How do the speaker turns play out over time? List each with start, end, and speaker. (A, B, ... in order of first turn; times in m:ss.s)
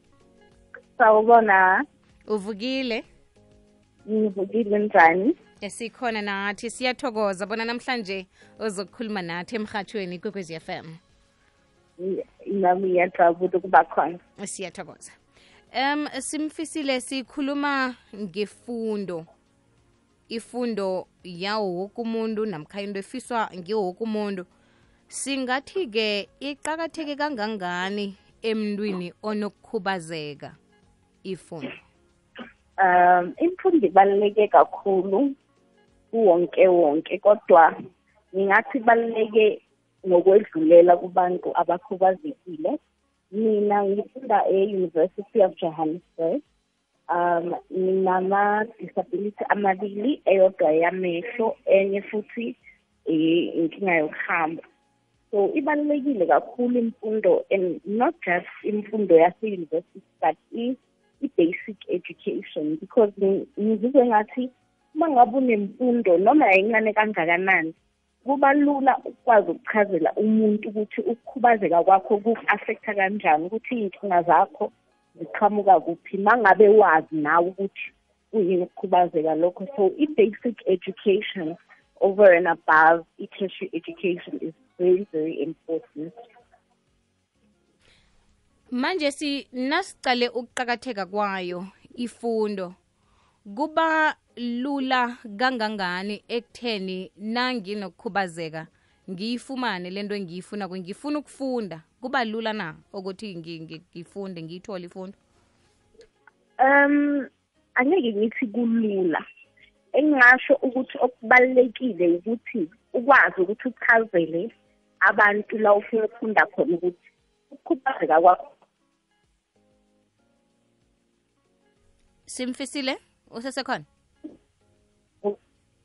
0:01.0-0:01.8 A
0:02.3-0:03.0 B
0:04.0-0:05.4 A
0:05.6-0:11.0 B
0:12.0-0:14.2 A
0:14.4-0:15.1 B
0:15.7-0:19.3 B
0:20.3-0:24.5 B
0:25.1-0:30.6 B
0:31.2-0:31.8 B
0:32.8-0:35.3 A
0:36.1-0:37.7 A
0:38.3-0:42.8 A
0:43.3-0:46.4 A
0:47.1-0:54.6 A
0:55.3-1:26.1 A
1:28.7-1:32.7 B
1:33.5-1:45.2 B
1:46.6-1:49.2 A
1:49.9-1:54.5 A
1:55.0-1:57.0 A
1:57.5-1:58.5 A
2:02.3-2:03.8 B